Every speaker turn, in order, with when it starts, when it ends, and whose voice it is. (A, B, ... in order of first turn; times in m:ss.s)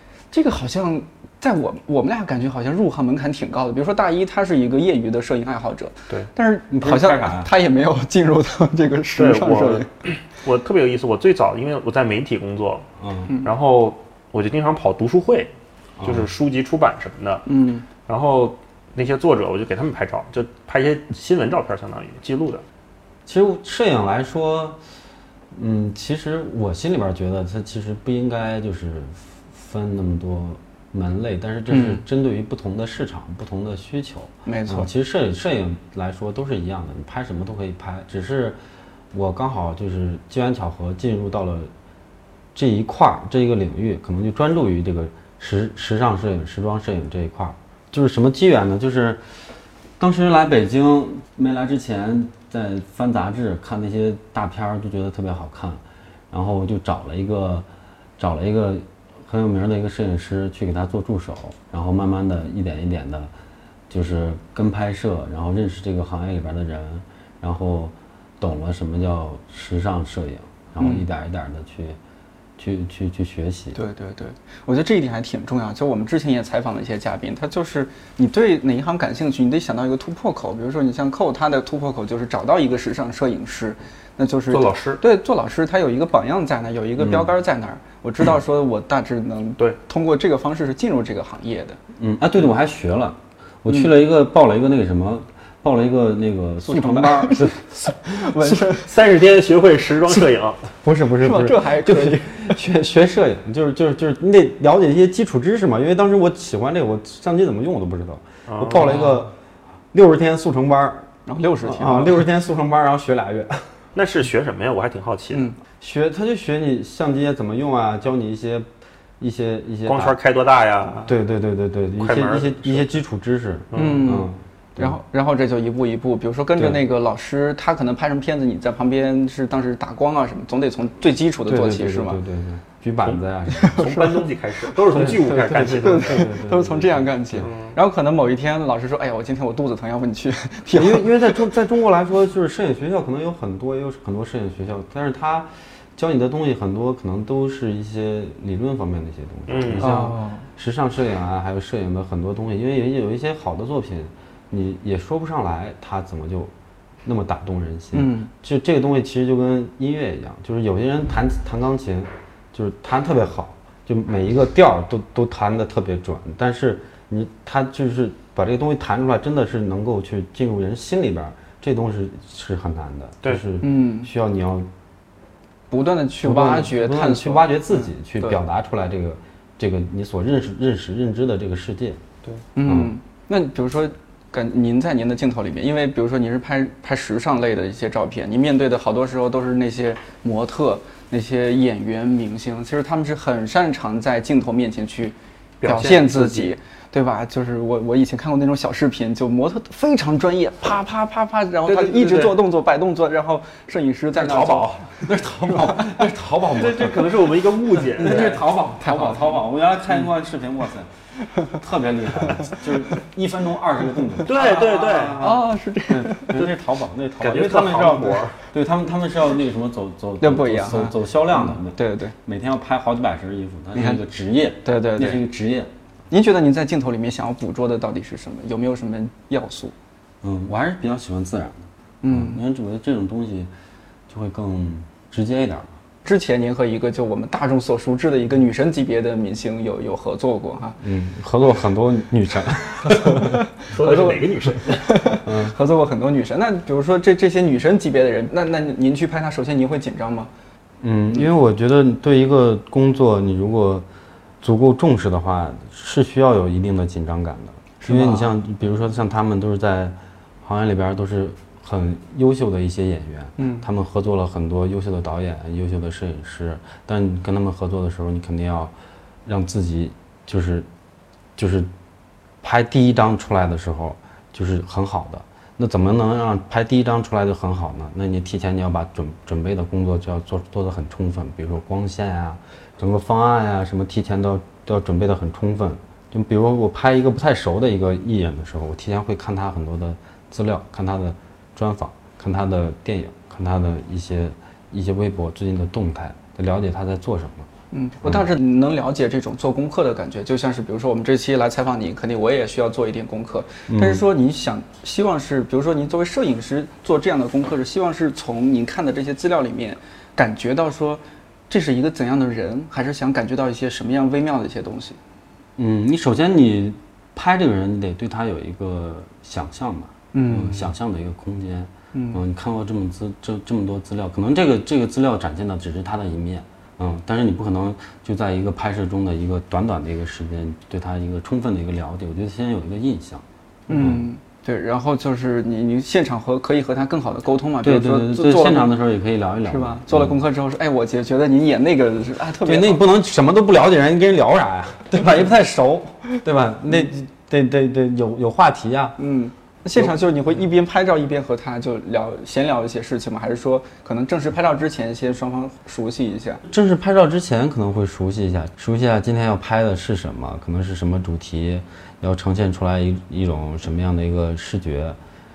0:00.3-0:09.9 A
0:06.7-0:07.5 B
0:09.2-0:12.9 C
0:13.0-0:13.3 B
0:13.4-0:17.4 C
0:16.0-0:16.3 B
0:17.5-0:17.8 A
0:18.0-0:22.6 C
0:23.2-0:24.8 B
0:25.5-0:38.6 B
0:31.7-0:32.0 A
0:34.4-0:34.9 A
0:39.1-0:41.7 B
0:42.5-0:49.2 B
0:50.0-0:57.7 B
0:58.2-1:03.3 B
1:03.9-1:12.0 B
1:10.8-1:11.0 A
1:12.6-1:13.8 B
1:13.7-1:31.8 A
1:24.5-1:25.0 C
1:27.0-1:27.3 B
1:32.0-1:38.4 B
1:36.7-1:38.9 A
1:38.4-1:40.7 C
1:40.8-1:49.3 B
1:41.2-1:42.6 A
1:48.5-1:49.0 C
1:48.8-1:49.1 A
1:49.9-1:51.1 B
1:51.2-1:52.2 A
1:51.6-1:53.7 B
1:53.9-1:55.5 C
1:55.3-1:55.6 A
1:55.8-1:58.7 B
1:59.2-2:00.2 B
1:59.8-2:01.1 C
2:01.0-2:05.0 B
2:02.0-2:03.0 C
2:03.7-2:04.2 C
2:03.7-2:12.2 A
2:06.6-2:06.8 B
2:11.4-2:13.9 B
2:13.0-2:16.4 C
2:13.7-2:21.5 A
2:14.9-2:17.5 B
2:17.4-2:17.8 C
2:20.7-2:36.5 B
2:29.5-2:30.0 C
2:29.8-2:30.4 A
2:37.0-2:54.7 B
2:37.9-2:38.3 A
2:53.6-2:54.1 A
2:55.7-2:58.4 A
2:56.2-3:02.0 B
3:02.6-3:26.0 A
3:02.6-3:02.9 B
3:15.6-3:16.5 C
3:21.6-3:22.4 C
3:24.1-3:27.3 B
3:24.3-3:24.6 C
3:26.5-3:28.4 C
3:27.9-3:30.9 B
3:28.0-3:29.4 A
3:31.4-3:45.7 B
3:34.2-3:35.3 C
3:35.2-3:36.3 A
3:37.2-3:38.4 C
3:40.2-3:42.1 A
3:43.7-3:44.0 A
3:44.6-3:45.2 A
3:46.1-3:49.7 A
3:50.2-3:53.5 B
3:52.0-3:52.4 A
3:54.1-3:55.8 B
3:56.0-4:00.8 A
4:00.8-4:03.4 B
4:02.9-4:10.3 A
4:03.6-4:05.1 C
4:05.2-4:05.5 B
4:10.8-4:13.8 B
4:14.4-4:28.7 B
4:17.8-4:18.3 A
4:23.4-4:23.6 A
4:29.2-4:30.7 B
4:31.4-4:31.7 B
4:32.4-4:57.5 B
4:57.7-5:15.0 A
5:03.7-5:04.0 B
5:15.6-5:34.0 B
5:20.1-5:20.7 A
5:21.9-5:22.2 A
5:33.7-5:38.7 A
5:37.6-5:40.2 B
5:39.5-5:42.8 A
5:42.4-5:49.0 B
5:49.0-5:56.4 A
5:56.5-6:05.0 B